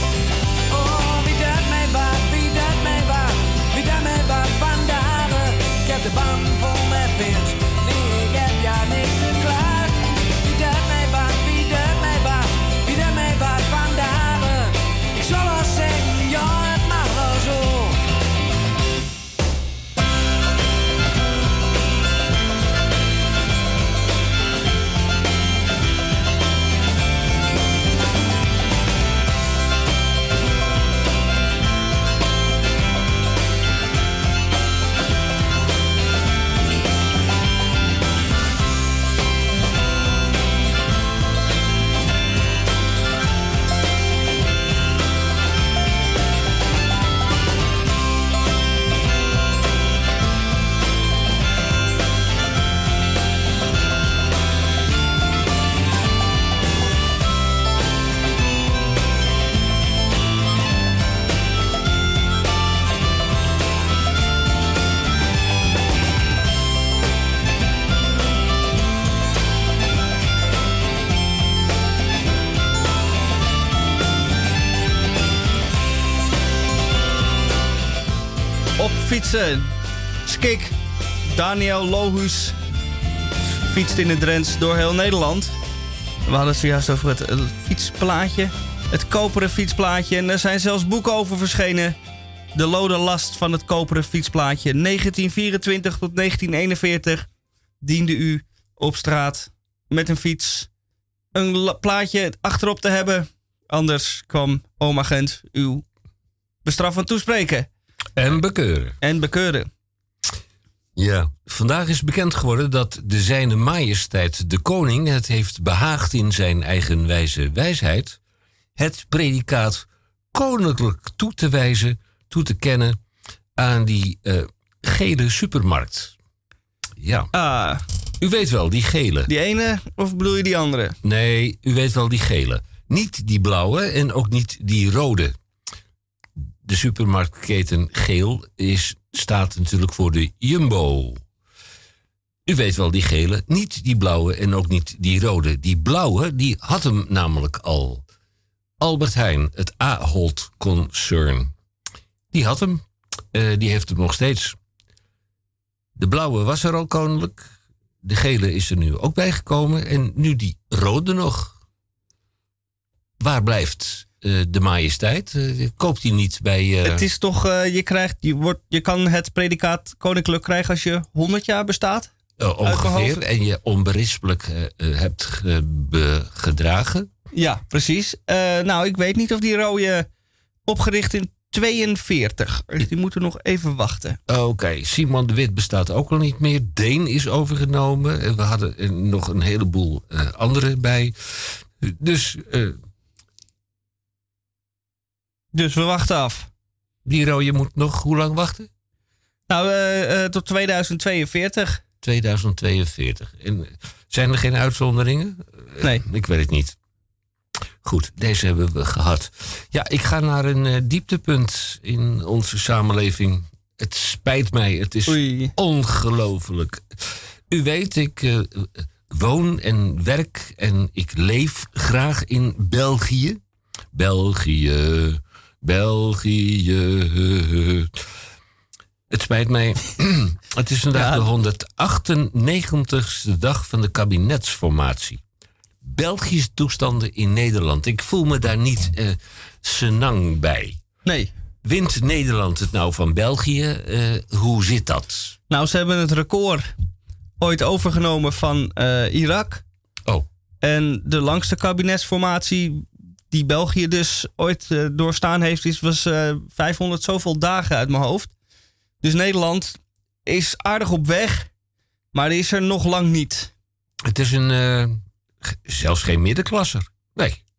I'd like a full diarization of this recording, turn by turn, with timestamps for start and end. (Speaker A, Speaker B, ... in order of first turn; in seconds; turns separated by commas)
Speaker A: 0.7-18.0, Speaker B: 78.8-79.7, Speaker B: 80.2-80.7, Speaker B: 81.3-82.5, Speaker B: 83.6-85.5, Speaker B: 86.3-92.0, Speaker B: 92.5-97.3, Speaker B: 97.8-100.7, Speaker B: 101.3-105.8, Speaker B: 106.6-107.7, Speaker C: 108.2-109.0, Speaker B: 109.0-109.7, Speaker C: 111.0-118.2, Speaker C: 118.8-123.0, Speaker C: 123.6-126.1, Speaker C: 127.0-127.3, Speaker B: 127.3-127.8, Speaker C: 128.2-129.3, Speaker B: 129.3-131.0, Speaker C: 131.0-135.4, Speaker C: 136.6-141.2, Speaker C: 142.4-148.0, Speaker C: 148.8-151.5, Speaker C: 152.3-154.6, Speaker C: 155.9-157.5, Speaker C: 158.0-161.6, Speaker C: 163.2-167.0, Speaker B: 166.8-172.1, Speaker C: 172.4-177.1, Speaker B: 172.6-173.2, Speaker B: 177.3-180.1, Speaker B: 180.7-184.2, Speaker C: 184.3-192.8, Speaker B: 195.5-196.5, Speaker C: 197.0-198.7, Speaker B: 199.5-201.8, Speaker C: 202.0-206.8, Speaker C: 207.8-223.4, Speaker B: 215.1-215.5, Speaker C: 223.9-228.0, Speaker C: 229.1-235.2, Speaker B: 230.9-231.2, Speaker C: 235.8-240.8, Speaker B: 241.0-241.3, Speaker C: 241.6-245.3, Speaker B: 245.5-246.7, Speaker B: 247.4-249.6, Speaker B: 250.6-258.3, Speaker B: 259.0-261.5, Speaker B: 262.1-263.5, Speaker C: 264.0-267.4